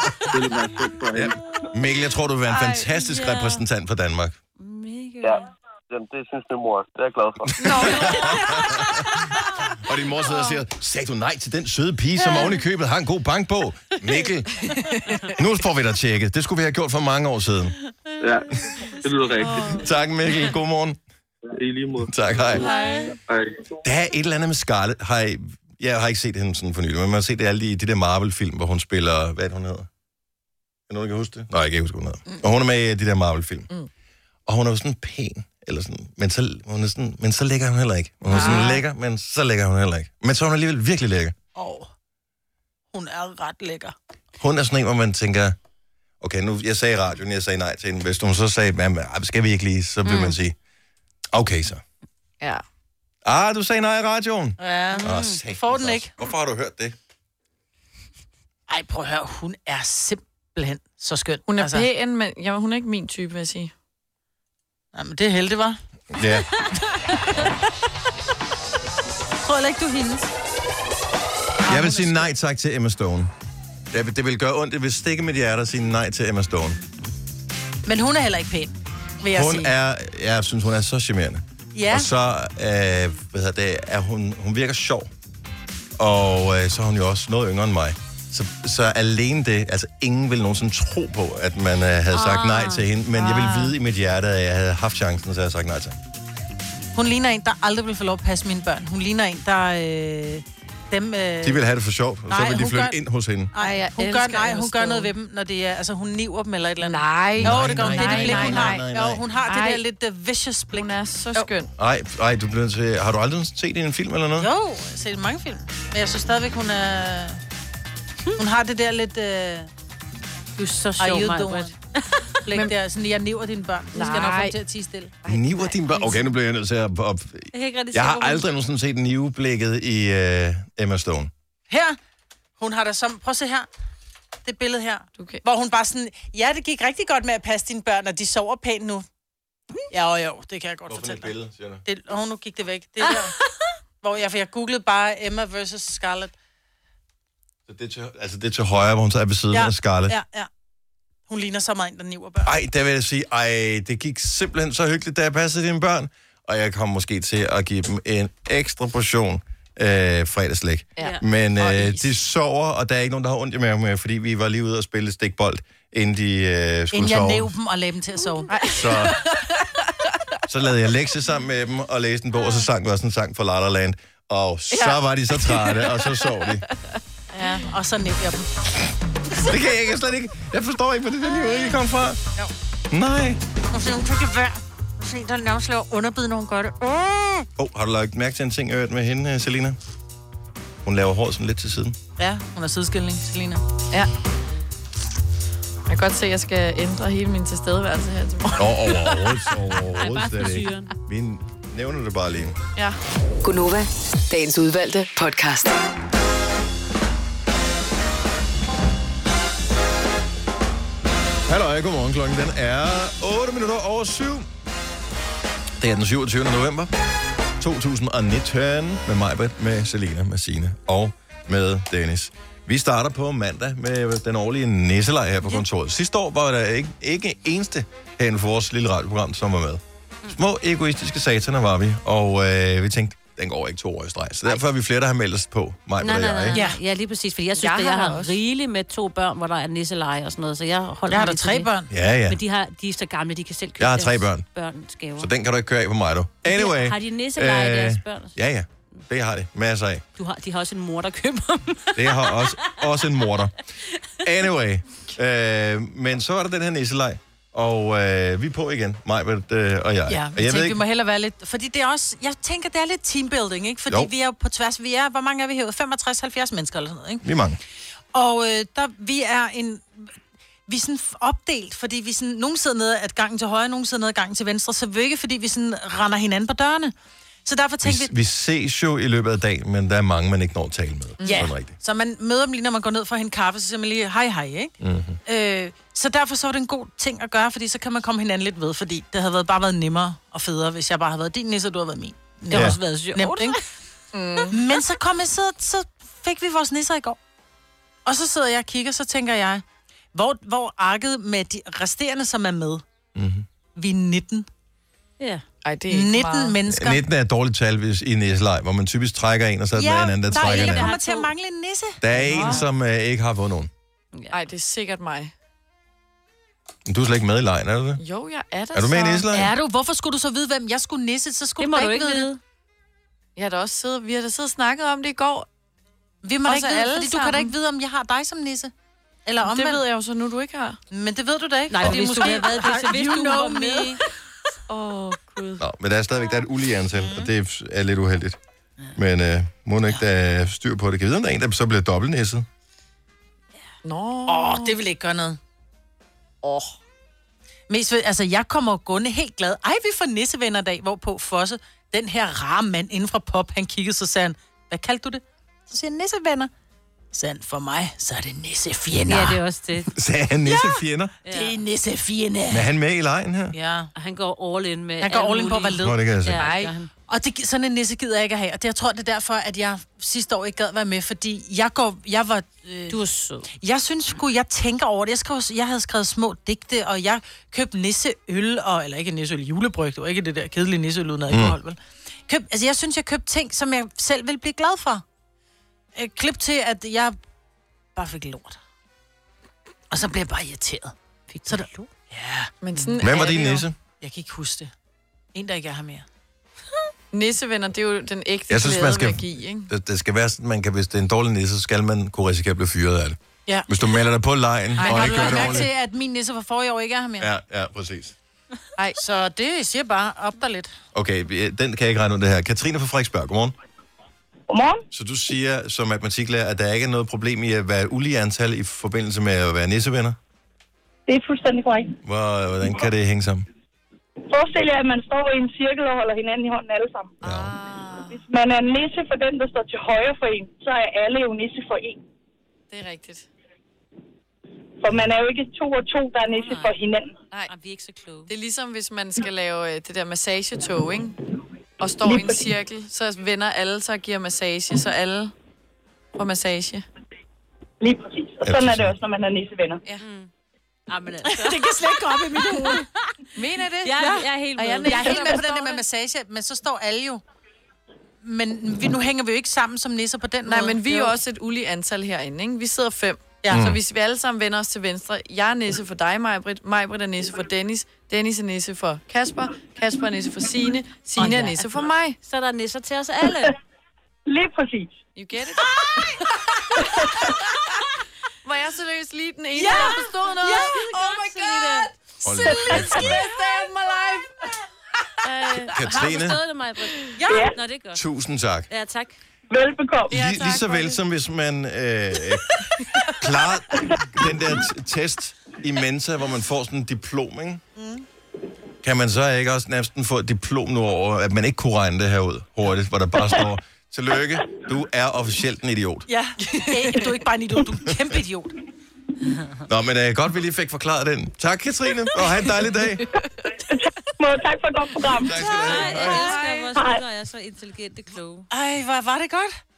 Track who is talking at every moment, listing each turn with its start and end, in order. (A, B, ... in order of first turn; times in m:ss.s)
0:00.3-0:01.4 A
0:01.1-0:04.4 B
0:02.5-0:02.8 C
0:02.8-0:03.6 D
0:04.6-0:05.5 D
0:05.2-0:07.7 A
0:07.6-0:09.0 B
0:07.6-0:08.2 C
0:07.8-0:08.6 D
0:09.8-0:14.7 B
0:14.8-0:15.1 C
0:15.4-0:17.8 B
0:18.2-0:19.8 A
0:19.4-0:19.8 C
0:19.7-0:21.0 B
0:21.5-0:22.6 A
0:22.1-0:22.6 B
0:22.6-0:23.1 D
0:22.6-0:23.1 C
0:23.3-0:23.8 A
0:23.8-0:29.9 B
0:30.9-0:33.7 B
0:34.5-0:41.4 B
0:38.3-0:38.8 E
0:38.3-0:38.8 C
0:41.6-0:41.9 E
0:42.9-0:44.0 E
0:44.4-0:45.6 B
0:46.2-0:50.6 B
0:50.0-0:50.4 D
0:51.3-0:51.8 B
0:53.2-0:57.0 B
0:54.6-0:56.1 E
0:54.9-0:55.4 D
0:58.7-1:01.9 E
1:01.5-1:03.7 C
1:04.9-1:05.8 E
1:06.1-1:06.5 B
1:07.3-1:07.5 E
1:09.4-1:10.3 E
1:11.6-1:12.3 E
1:11.7-1:13.3 B
1:13.9-1:16.8 B
1:17.9-1:19.7 E
1:19.3-1:25.1 B
1:21.7-1:22.1 E
1:26.0-1:36.0 B
1:32.1-1:32.9 D
1:37.0-1:41.6 E
1:41.4-1:43.5 B
1:42.3-1:43.0 E
1:43.5-1:51.5 E
1:43.6-1:45.1 C
1:46.8-1:48.9 C
1:47.4-1:49.2 B
1:49.4-1:49.8 C
1:50.7-1:51.7 C
1:51.8-1:54.5 B
1:54.4-1:57.4 E
1:58.4-1:59.7 E
2:00.6-2:01.8 E
2:01.0-2:02.7 D
2:02.4-2:05.2 E
2:03.9-2:04.6 C
2:05.2-2:05.8 C
2:05.3-2:11.3 B
2:07.5-2:08.5 D
2:11.7-2:12.0 E
2:12.6-2:13.7 E
2:14.4-2:19.1 E
2:15.2-2:15.4 C
2:19.9-2:21.3 E
2:20.9-2:21.8 B
2:21.8-2:23.4 E
2:24.0-2:26.3 E
2:27.7-2:30.2 B
2:29.5-2:30.5 E
2:31.3-2:32.5 E
2:32.4-2:47.5 B
2:41.0-2:42.1 C
2:46.9-2:48.5 E
2:48.5-2:49.5 C
2:48.7-2:49.2 B
2:50.5-2:56.6 B
2:54.7-2:56.1 C
2:57.3-2:58.5 E
2:59.4-3:02.2 B
3:02.9-3:03.4 B
3:03.7-3:07.5 E
3:07.6-3:09.8 B
3:10.8-3:12.0 B
3:12.2-3:13.6 E
3:15.9-3:19.3 C
3:18.6-3:22.6 B
3:19.9-3:20.9 D
3:23.4-3:25.8 F
3:31.5-3:34.5 B
3:35.8-3:36.9 B
3:37.6-3:56.6 B
3:56.0-4:01.7 D
3:56.5-3:56.8 E
3:57.6-3:58.4 C
4:01.1-4:01.9 E
4:01.9-4:02.4 B
4:02.3-4:05.3 D
4:03.8-4:04.5 B
4:05.2-4:10.0 B
4:06.5-4:08.3 D
4:10.2-4:12.7 D
4:12.0-4:13.5 B
4:14.2-4:20.8 B
4:20.1-4:27.2 E
4:27.2-4:27.6 B
4:28.1-4:30.1 E
4:30.7-4:36.9 E
4:37.4-4:38.1 E
4:37.8-4:41.8 B
4:41.2-4:44.7 E
4:44.8-4:45.2 B
4:45.3-4:53.6 E
4:52.5-4:53.6 D
4:52.5-4:52.8 B
4:54.1-4:54.6 C
4:54.5-4:57.2 E
4:58.0-5:02.8 E
5:03.2-5:03.5 B
5:03.8-5:04.5 E
5:05.6-5:06.6 C
5:05.9-5:07.0 E
5:06.7-5:10.9 B
5:09.7-5:12.6 E
5:10.3-5:11.3 D
5:12.0-5:13.7 B
5:14.3-5:15.3 C
5:16.9-5:18.0 B
5:18.0-5:19.3 C
5:18.7-5:19.5 B
5:19.3-5:22.3 E
5:21.6-5:22.4 D
5:23.4-5:25.5 C
5:26.2-5:28.7 E
5:26.4-5:27.5 C
5:29.3-5:29.8 E
5:29.4-5:30.8 C
5:30.9-5:34.0 E
5:31.7-5:34.0 D
5:34.7-5:35.6 C
5:35.6-5:38.4 B
5:39.0-5:42.5 B
5:43.8-5:44.8 C
5:44.3-5:45.4 E
5:46.4-5:46.8 C
5:47.7-5:56.5 E
5:57.1-5:59.4 E
5:59.1-5:59.9 D
5:59.9-6:01.1 B
6:00.4-6:02.7 E
6:01.2-6:01.6 D
6:02.5-6:03.6 B
6:03.5-6:03.9 E
6:04.0-6:06.9 D
6:05.0-6:06.6 E
6:05.8-6:06.5 B
6:06.4-6:06.7 C
6:07.1-6:13.0 E
6:12.9-6:13.5 D
6:13.6-6:25.0 E
6:21.3-6:21.6 B
6:26.0-6:27.2 E
6:28.0-6:28.6 E
6:29.9-6:30.9 E
6:31.3-6:31.9 D
6:31.5-6:34.7 E
6:32.6-6:33.5 C
6:33.0-6:33.8 B
6:35.3-6:36.1 E
6:37.1-6:39.7 C
6:38.5-6:45.7 B
6:44.8-6:45.5 C
6:44.8-6:47.3 E
6:47.2-6:48.2 B
6:49.0-6:50.7 E
6:50.9-6:53.5 B
6:54.5-6:54.8 G
6:54.9-7:00.2 B
7:01.1-7:02.0 G
7:02.0-7:03.5 B
7:04.3-7:07.2 G
7:07.2-7:07.5 B
7:07.2-7:08.2 C
7:08.1-7:12.0 G
7:12.7-7:13.3 C
7:14.8-7:17.2 G
7:16.3-7:16.7 D
7:17.5-7:18.3 D
7:18.3-7:21.2 C
7:21.8-7:25.3 C
7:22.1-7:22.4 G
7:26.2-7:26.8 C
7:27.8-7:29.8 G
7:28.4-7:28.9 B
7:30.0-7:30.3 D
7:30.9-7:32.9 D
7:31.3-7:32.9 E
7:33.4-7:35.8 C
7:33.8-7:35.4 D
7:33.9-7:34.3 E
7:34.8-7:37.2 E
7:38.2-7:41.2 E
7:40.5-7:52.2 C
7:43.4-7:43.7 E
7:43.5-7:43.8 B
7:51.2-7:51.6 E
7:52.2-7:53.6 D
7:54.3-7:54.9 G
7:55.2-7:56.1 C
7:58.4-8:01.7 C
7:59.6-8:03.7 E
8:00.8-8:01.9 D
8:02.2-8:03.2 B
8:02.7-8:04.2 C
8:05.2-8:08.0 D
8:05.8-8:06.4 B
8:07.2-8:07.5 E
8:07.3-8:07.6 G
8:07.9-8:08.7 B
8:08.7-8:09.2 D
8:09.5-8:10.2 G
8:10.1-8:17.6 B
8:10.1-8:11.0 C
8:17.8-8:18.1 E
8:18.8-8:26.1 B
8:26.1-8:28.5 E
8:26.5-8:27.0 C
8:29.7-8:33.1 B
8:33.7-8:35.6 G
8:35.2-8:36.3 B
8:35.4-8:38.5 D
8:36.0-8:36.6 E
8:36.8-8:37.0 G
8:38.5-8:39.6 E